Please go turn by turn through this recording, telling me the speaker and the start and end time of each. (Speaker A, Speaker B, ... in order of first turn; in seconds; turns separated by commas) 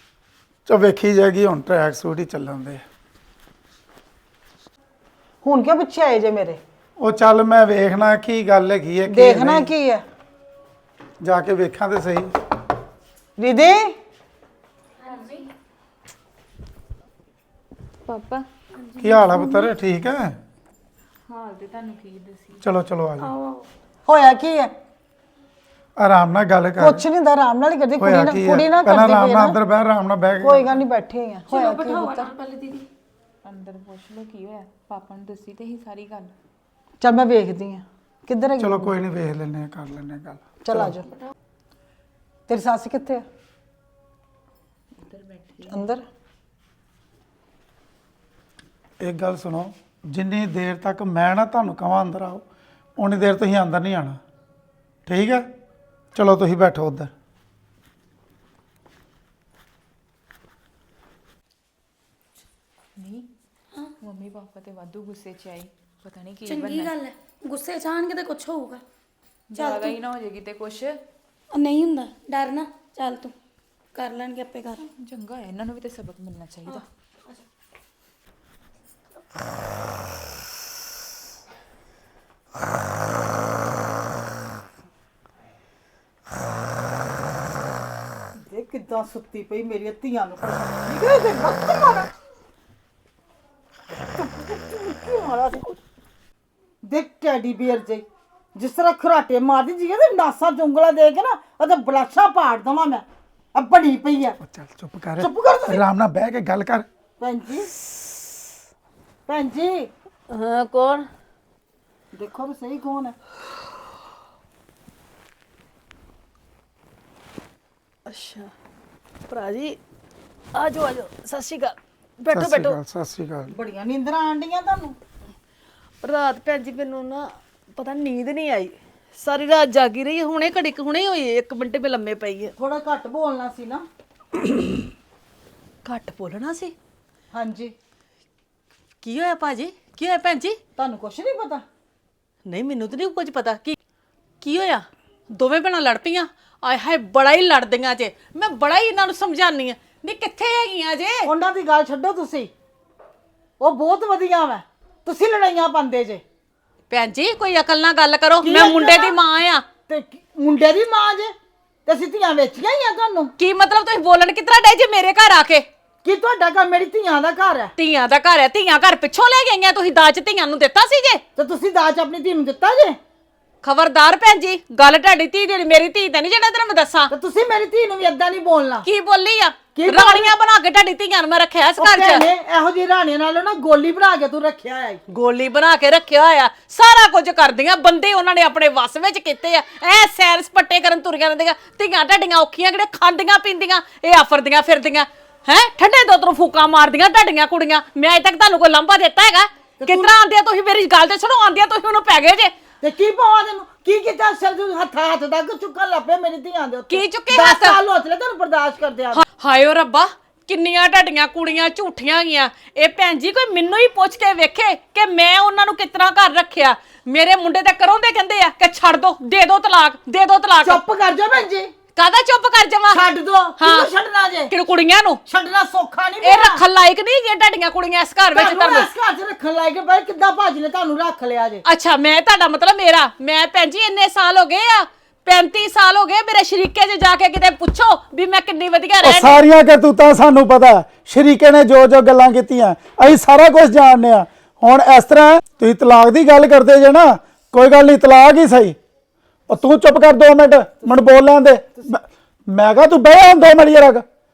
Speaker A: 0.7-2.8, Speaker B: 5.4-6.6, Speaker A: 7.0-9.7, Speaker B: 9.1-10.0, Speaker A: 11.2-12.3, Speaker B: 13.4-13.9, Speaker C: 15.0-15.5, Speaker C: 18.0-18.5, Speaker D: 18.8-19.7, Speaker A: 19.0-20.4, Speaker C: 21.2-22.6, Speaker A: 22.6-23.3, Speaker D: 23.2-23.6, Speaker B: 24.1-24.7, Speaker A: 26.0-27.0, Speaker B: 26.8-29.6, Speaker A: 28.0-30.8, Speaker B: 30.4-32.3, Speaker D: 31.5-32.9, Speaker C: 33.4-36.3, Speaker B: 37.0-39.0, Speaker A: 38.6-40.9, Speaker B: 40.6-41.1, Speaker B: 42.5-43.2, Speaker C: 45.0-45.8, Speaker B: 45.7-46.0, Speaker A: 49.0-52.4, Speaker A: 53.0-54.2, Speaker A: 55.0-55.4, Speaker A: 56.1-57.1, Speaker C: 63.0-63.2, Speaker C: 64.0-67.0, Speaker D: 66.5-68.8, Speaker C: 69.5-71.0, Speaker D: 69.5-70.0, Speaker D: 71.5-73.3, Speaker D: 73.9-74.8, Speaker C: 74.8-76.8, Speaker B: 88.5-92.1, Speaker B: 94.1-95.8, Speaker B: 96.8-104.4, Speaker A: 104.4-106.8, Speaker B: 105.2-105.8, Speaker B: 107.2-107.7, Speaker B: 109.3-109.9, Speaker E: 110.3-111.1, Speaker B: 112.1-113.1, Speaker E: 118.1-118.5, Speaker E: 119.3-119.8, Speaker E: 120.5-122.8, Speaker A: 122.3-123.5, Speaker B: 123.5-125.0, Speaker E: 126.0-132.5, Speaker B: 132.6-133.8, Speaker E: 135.8-136.7, Speaker B: 137.3-137.7, Speaker E: 139.0-140.6, Speaker B: 140.8-141.6, Speaker E: 142.4-143.8, Speaker E: 144.4-151.3, Speaker B: 151.2-152.5, Speaker B: 153.6-156.2, Speaker E: 156.9-159.6, Speaker B: 158.4-159.2, Speaker B: 159.9-161.3, Speaker B: 161.8-163.3, Speaker E: 163.4-165.7, Speaker B: 166.0-167.7, Speaker E: 167.8-171.2, Speaker B: 171.3-173.0, Speaker E: 173.6-177.1, Speaker B: 177.1-178.9, Speaker E: 178.8-182.2, Speaker B: 179.7-180.3, Speaker B: 181.8-185.0, Speaker E: 185.1-202.5, Speaker B: 199.8-200.1, Speaker B: 202.8-209.2, Speaker E: 206.9-207.8, Speaker E: 209.1-220.8, Speaker B: 220.6-221.7, Speaker E: 221.9-223.0, Speaker B: 222.9-224.5, Speaker E: 223.6-223.9, Speaker E: 224.5-225.2, Speaker B: 225.2-226.6, Speaker E: 226.2-228.9, Speaker B: 228.3-231.6, Speaker E: 231.7-239.4, Speaker A: 239.0-248.8, Speaker A: 249.5-254.0